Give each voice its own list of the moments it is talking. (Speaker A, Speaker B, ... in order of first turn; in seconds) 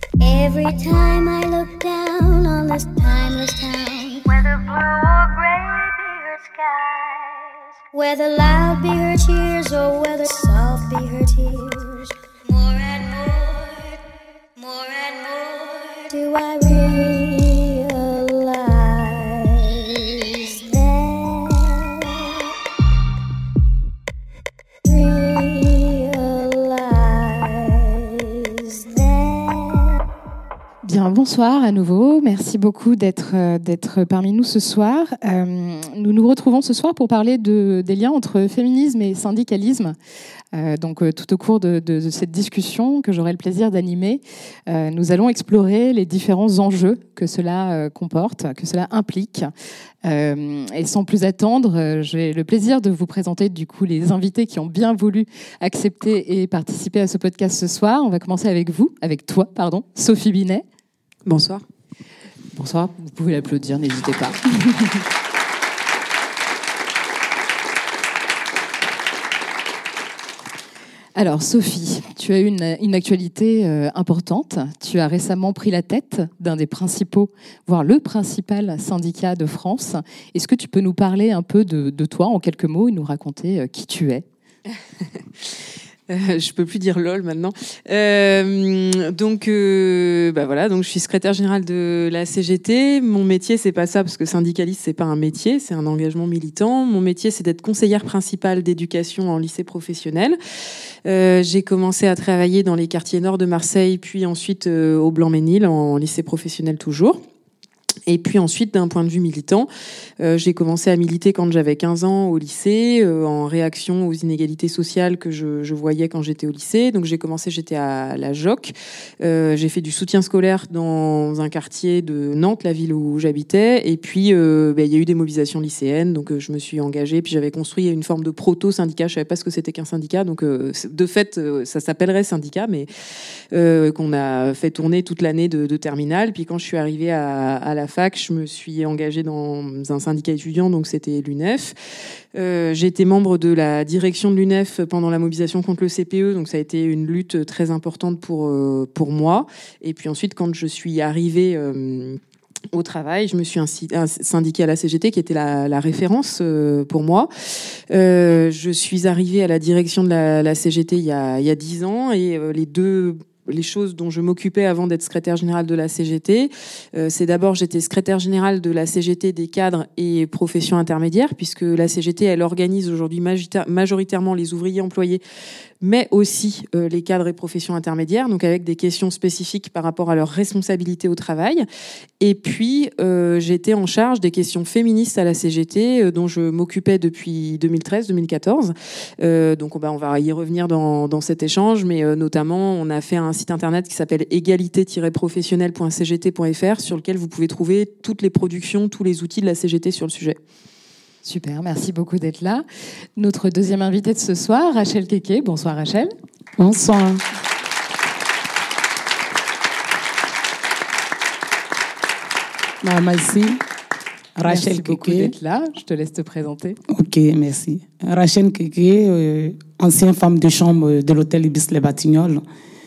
Speaker A: 0.2-7.3, 7.9-14.0, 14.6-22.0, 24.9-30.0
Speaker B: 30.8-40.0, 40.5-49.5, 50.0-60.6, 62.5-65.0, 71.2-84.2, 201.2-202.7, 203.2-206.1, 214.4-216.8
Speaker C: 61.3-61.6, 86.1-100.4, 101.0-107.2, 108.1-109.7, 110.2-132.9, 133.5-141.8, 142.3-152.2, 152.7-157.3, 157.9-175.2, 175.8-181.7, 182.2-200.4
Speaker D: 206.6-207.2, 212.8-213.6, 214.4-215.3, 216.9-222.4